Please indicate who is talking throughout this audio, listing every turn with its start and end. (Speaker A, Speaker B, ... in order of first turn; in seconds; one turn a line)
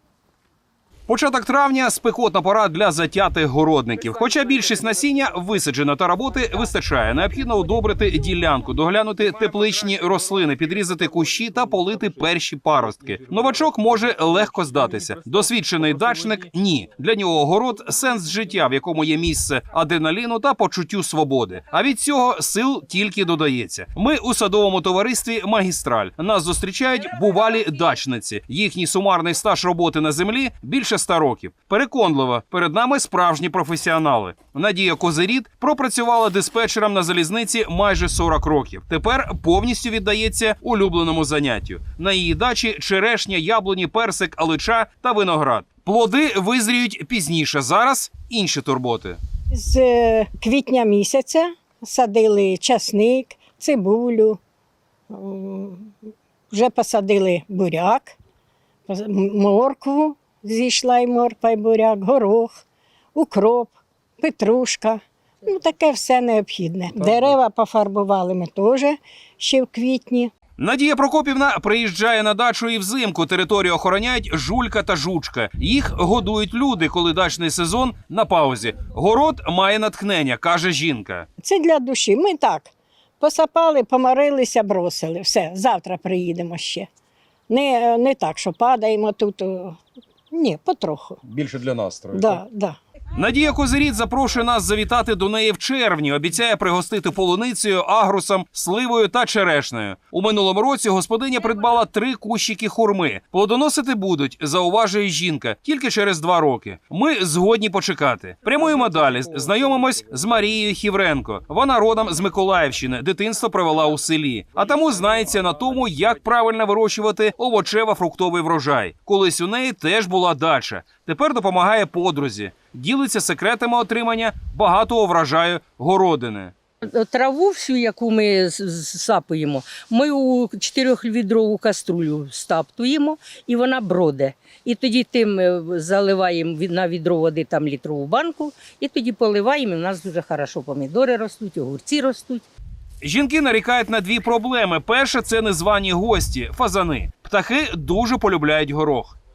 Speaker A: 1.1-49.2
Speaker B: 49.5-54.4
Speaker B: 55.1-55.9
Speaker B: 56.5-58.2
Speaker B: 58.9-62.6
Speaker B: 63.1-70.3
Speaker A: 70.6-81.3
Speaker B: 81.4-86.9
Speaker B: 87.5-89.8
Speaker B: 90.3-91.2
Speaker A: 91.3-92.4
Speaker B: 92.1-92.8
Speaker A: 93.2-126.5
Speaker C: 126.8-142.4
Speaker A: 143.0-149.2